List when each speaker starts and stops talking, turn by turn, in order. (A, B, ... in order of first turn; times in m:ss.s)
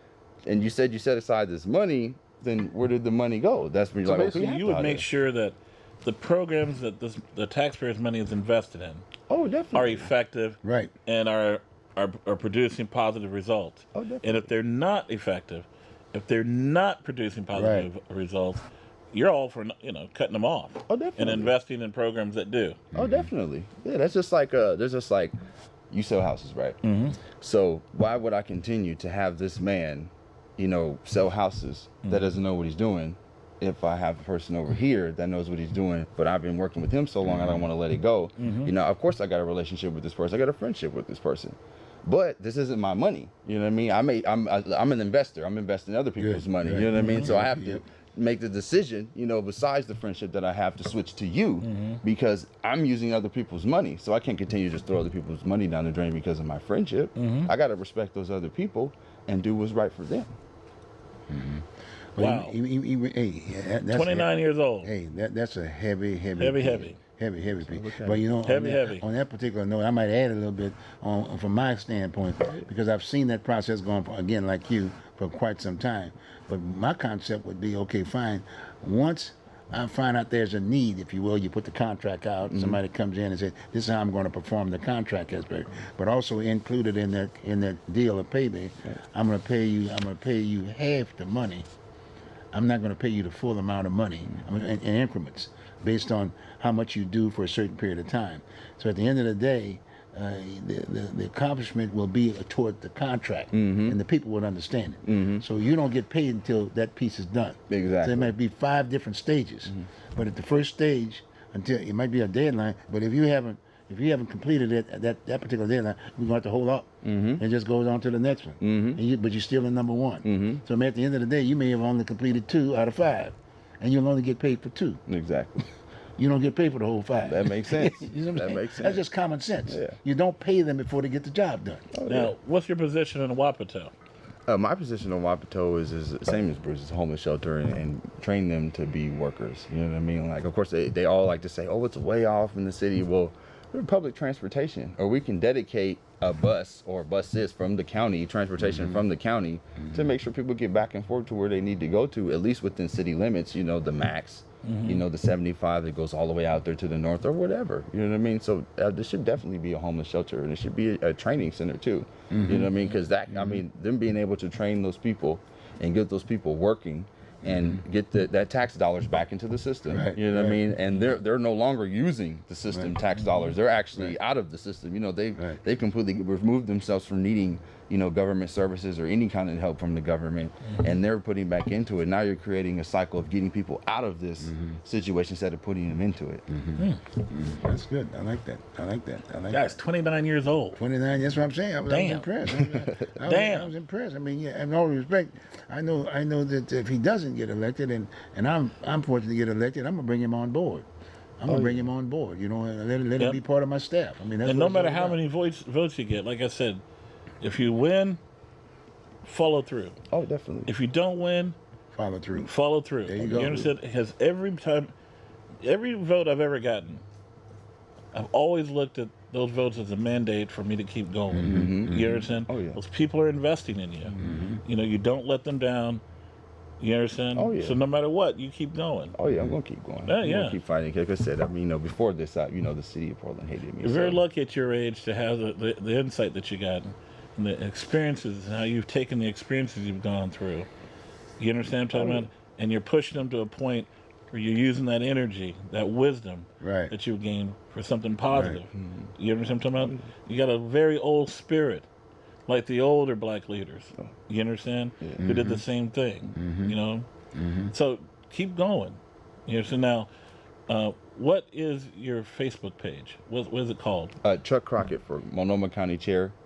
0:00.4-0:05.0 A
0:04.0-0:09.1 B
0:09.3-0:10.1 A
0:09.7-0:22.8 B
0:10.6-0:10.9 C
0:13.9-0:14.4 A
0:17.5-0:17.9 C
0:20.9-0:21.5 A
0:22.9-0:23.3 C
0:22.9-0:25.4 A
0:25.9-0:26.8 A
0:26.8-0:27.2 B
0:27.4-1:00.3 A
0:32.0-0:32.3 B
0:38.4-0:38.7 B
0:46.2-0:47.8 C
0:46.9-0:47.3 B
0:51.6-0:52.0 B
0:57.1-0:57.5 B
1:01.3-1:31.6 C
1:02.2-1:02.6 B
1:03.9-1:04.9 B
1:06.4-1:07.0 B
1:07.6-1:08.3 A
1:08.4-1:09.0 B
1:22.5-1:22.8 A
1:32.5-2:05.0 C
1:43.5-1:44.0 A
1:45.0-1:45.4 A
1:47.7-1:48.3 A
1:57.0-1:57.4 A
1:58.6-1:59.0 A
2:00.2-2:00.6 A
2:05.1-2:05.7 A
2:06.2-2:11.9 C
2:07.2-2:09.0 A
2:09.7-2:10.0 A
2:11.9-2:12.3 A
2:12.0-2:13.9 B
2:14.5-3:06.4 A
2:28.6-2:29.0 C
2:34.6-2:35.0 B
2:42.3-2:42.7 C
2:43.3-2:43.6 C
2:47.4-2:47.8 C
2:49.9-2:50.6 C
3:00.6-3:00.9 B
3:04.4-3:04.8 C
3:06.5-3:09.6 C
3:09.5-3:10.8 B
3:10.7-3:20.9 C
3:11.9-3:12.5 B
3:13.2-3:13.7 B
3:21.4-3:25.2 C
3:21.5-3:21.9 A
3:24.4-3:26.8 B
3:27.4-3:28.2 B
3:29.2-3:30.0 B
3:30.1-3:30.7 A
3:30.7-3:31.6 B
3:31.9-3:32.5 C
3:32.4-3:34.9 B
3:33.0-3:33.7 C
3:35.6-3:37.0 B
3:38.1-3:46.0 B
3:41.3-3:42.3 C
3:41.4-3:42.8 A
3:44.2-3:44.6 C
3:46.8-3:49.2 B
3:47.3-3:47.8 A
3:49.2-3:54.2 A
3:50.0-3:50.6 B
3:53.8-4:00.7 B
4:01.4-4:11.9 B
4:01.9-4:02.3 A
4:06.6-4:06.9 C
4:08.3-4:08.6 C
4:08.8-4:09.1 A
4:12.5-4:17.1 B
4:15.0-4:15.4 A
4:15.2-4:15.6 C
4:16.3-4:16.8 C
4:17.3-4:17.7 C
4:17.7-4:20.1 B
4:20.7-4:24.2 B
4:24.2-4:26.3 A